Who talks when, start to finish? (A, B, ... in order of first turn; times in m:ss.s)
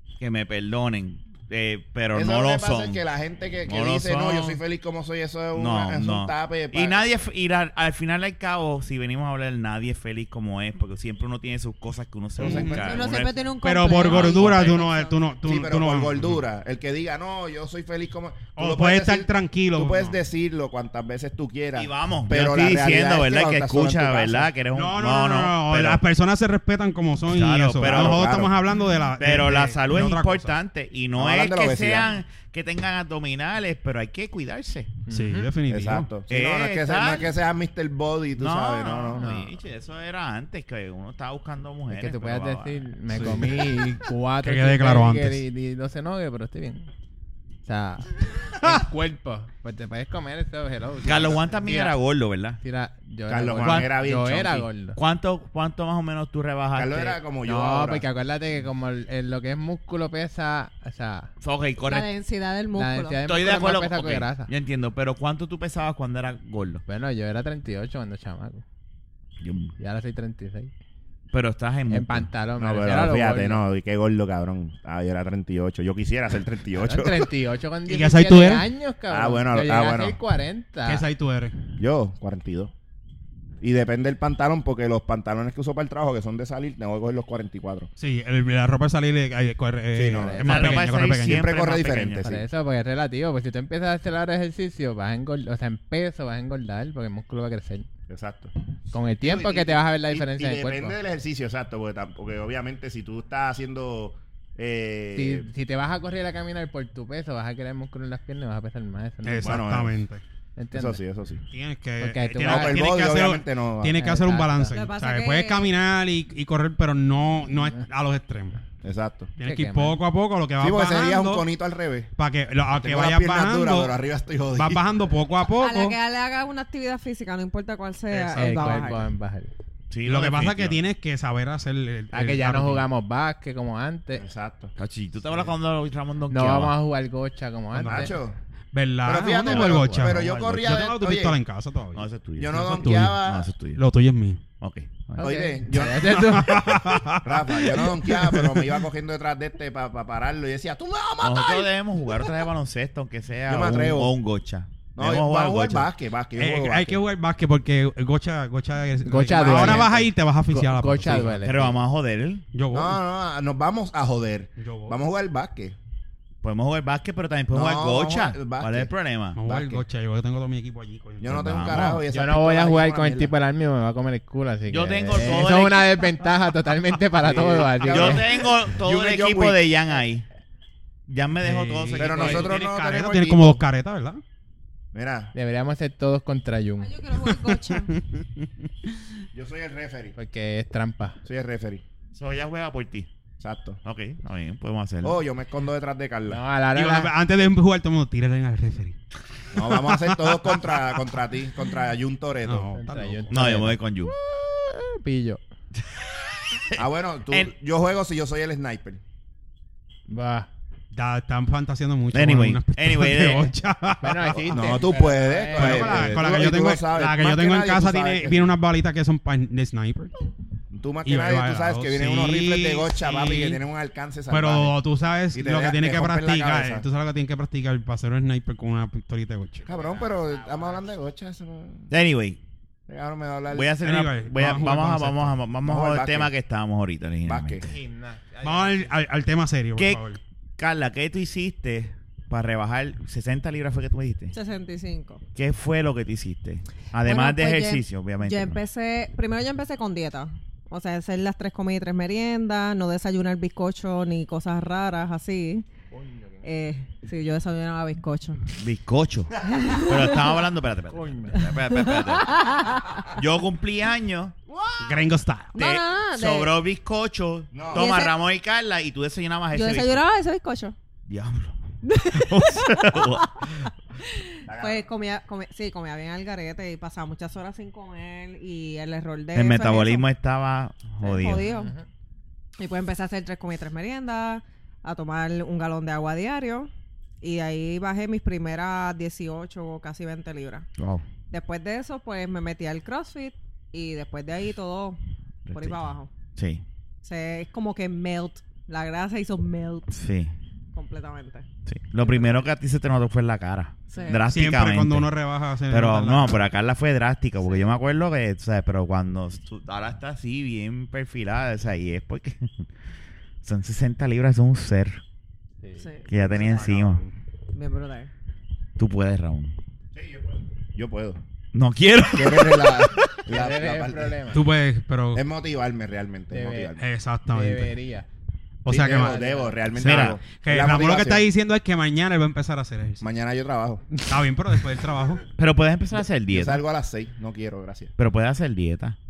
0:00.2-0:03.0 A
0:02.1-0:07.0 B
0:03.6-0:04.6 A
0:05.5-0:13.4 A
0:12.4-0:13.0 C
0:12.4-0:13.1 B
0:12.8-0:15.2 D
0:13.6-0:16.4 C
0:14.0-0:14.7 A
0:15.4-0:24.5 B
0:18.6-0:20.2 C
0:21.7-0:26.0 A
0:24.7-0:30.5 C
0:27.3-0:28.3 A
0:27.8-0:28.6 B
0:29.2-0:35.0 A
0:31.2-0:32.2 B
0:35.1-0:35.5 E
0:35.1-0:36.1 C
0:35.7-0:39.4 B
0:36.3-0:37.3 A
0:38.4-0:43.5 A
0:39.2-0:39.5 E
0:41.9-0:46.9 E
0:43.1-0:43.5 C
0:44.4-0:45.4 C
0:47.6-0:52.0 E
0:51.0-0:52.6 A
0:52.6-0:55.0 E
0:53.3-0:54.7 B
0:54.9-0:57.2 A
0:56.7-0:58.0 B
0:57.4-1:01.3 E
1:01.4-1:02.1 A
1:01.8-1:03.2 D
1:02.7-1:04.5 E
1:03.3-1:06.8 A
1:06.9-1:08.6 E
1:09.4-1:09.7 A
1:09.8-1:10.7 E
1:11.3-1:12.3 A
1:11.9-1:13.6 E
1:12.6-1:17.3 B
1:16.8-1:21.0 E
1:17.9-1:18.7 C
1:19.1-1:20.2 B
1:20.8-1:21.6 C
1:21.8-1:22.7 B
1:23.6-1:27.9 B
1:28.0-1:31.4 C
1:29.9-1:32.4 B
1:30.1-1:30.7 E
1:30.4-1:32.3 A
1:32.2-1:37.9 E
1:38.1-1:38.5 B
1:38.9-1:41.0 E
1:39.2-1:45.5 B
1:45.1-1:49.7 E
1:49.2-1:50.2 C
1:49.4-1:50.0 B
1:50.6-1:51.0 E
1:50.7-1:51.4 B
1:51.5-1:58.6 C
1:52.0-1:52.8 E
1:52.4-1:54.0 B
1:53.9-1:54.8 E
1:54.7-1:55.7 D
1:58.8-1:59.3 B
1:59.4-2:01.4 C
1:59.4-2:00.0 E
2:00.6-2:02.1 B
2:02.2-2:03.9 C
2:02.7-2:04.8 B
2:04.6-2:06.0 C
2:05.6-2:09.1 D
2:08.1-2:08.9 C
2:08.3-2:09.5 E
2:09.9-2:10.8 A
2:10.0-2:12.8 C
2:12.1-2:14.2 E
2:14.2-2:14.7 B
2:14.8-2:16.8 A
2:16.3-2:18.1 E
2:17.8-2:18.1 C
2:17.8-2:18.4 B
2:18.7-2:23.2 C
2:19.0-2:21.4 B
2:19.4-2:20.2 A
2:21.9-2:23.8 A
2:22.4-2:23.5 B
2:23.8-2:24.4 C
2:24.6-2:25.3 A
2:25.2-2:26.8 E
2:25.2-2:26.2 B
2:26.1-2:28.7 C
2:27.2-2:31.7 B
2:31.2-2:35.9 A
2:33.5-2:34.1 B
2:35.0-2:37.0 B
2:36.4-2:41.5 C
2:39.0-2:41.8 E
2:41.4-2:42.4 A
2:42.5-2:43.0 C
2:42.7-2:45.8 B
2:44.6-2:45.0 C
2:46.4-2:49.4 A
2:47.5-2:48.9 B
2:49.3-2:52.0 C
2:49.4-2:49.8 B
2:51.2-2:53.3 B
2:51.4-2:52.0 A
2:52.1-2:58.2 E
2:54.7-2:55.9 A
2:57.2-2:59.6 B
2:57.8-3:00.2 A
3:01.1-3:02.5 A
3:01.4-3:04.2 C
3:02.0-3:03.6 B
3:02.2-3:02.4 E
3:04.9-3:05.3 B
3:05.3-3:06.9 E
3:06.8-3:07.9 D
3:07.2-3:08.5 C
3:09.3-3:10.2 B
3:10.2-3:11.2 E
3:11.2-3:11.8 B
3:12.1-3:13.1 A
3:13.4-3:13.8 B
3:13.8-3:15.2 A
3:15.0-3:16.4 B
3:16.3-3:17.1 E
3:16.7-3:19.0 C
3:19.5-3:22.7 B
3:19.6-3:21.0 C
3:22.4-3:23.4 C
3:22.7-3:25.4 E
3:23.3-3:24.1 A
3:26.0-3:27.5 A
3:26.8-3:29.0 B
3:30.1-3:30.5 E
3:30.9-3:34.5 C
3:32.1-3:33.5 A
3:34.0-3:36.2 E
3:34.5-3:38.5 B
3:35.5-3:40.1 C
3:40.7-3:44.8 B
3:41.0-3:43.6 C
3:44.3-3:49.6 C
3:45.3-3:46.9 B
3:49.6-3:51.9 B
3:49.6-3:50.9 E
3:51.9-3:52.4 A
3:52.9-3:53.7 B
3:53.5-3:57.7 A
3:53.8-3:55.4 C
3:55.6-3:56.3 B
3:57.2-3:57.7 B
3:57.6-3:58.9 E
3:58.4-4:00.2 C
3:59.8-4:00.0 A
4:00.6-4:04.3 A
4:04.3-4:05.2 D
4:05.3-4:08.6 A
4:07.0-4:15.7 D
4:15.9-4:16.4 E
4:16.4-4:18.4 D
4:18.5-4:22.5 A
4:19.5-4:20.4 D
4:20.9-4:21.5 E
4:21.5-4:23.0 D
4:23.1-4:24.3 A
4:24.5-4:25.0 B
4:24.8-4:25.6 C
4:25.5-4:26.5 D
4:25.6-4:30.0 A
4:27.5-4:27.9 B
4:27.7-4:28.1 D
4:29.5-4:30.7 D
4:31.1-4:31.6 A
4:31.8-4:33.5 D
4:32.1-4:33.7 A
4:34.0-4:40.1 D
4:34.4-4:34.8 B
4:39.3-4:41.4 A
4:41.0-4:41.7 D
4:41.4-4:41.8 E
4:42.6-4:50.7 D
4:50.8-4:51.0 A
4:51.3-4:55.0 D
4:55.4-4:56.6 A
4:55.5-4:56.1 D
4:57.0-4:59.9 D
4:59.9-5:00.3 A
5:00.7-5:01.4 D
5:01.6-5:05.1 A
5:02.0-5:02.4 D
5:03.9-5:04.2 D
5:04.3-5:06.4 C
5:05.7-5:12.7 A
5:13.4-5:15.0 A
5:15.6-5:15.9 E
5:15.8-5:16.1 D
5:16.1-5:17.0 A
5:16.5-5:17.0 C
5:17.5-5:18.1 D
5:18.8-5:19.5 A
5:19.9-5:21.2 B
5:21.5-5:23.2 A
5:22.1-5:24.2 B
5:23.3-5:24.4 E
5:24.3-5:25.2 C
5:25.1-5:26.8 B
5:26.3-5:26.8 E
5:26.8-5:27.7 C
5:27.3-5:28.1 E
5:28.6-5:29.1 C
5:28.7-5:31.3 B
5:28.8-5:29.6 E
5:29.8-5:30.2 A
5:29.8-5:33.0 C
5:33.0-5:33.8 B
5:34.0-5:35.2 C
5:35.4-5:36.6 A
5:36.3-5:37.9 B
5:38.0-5:39.0 A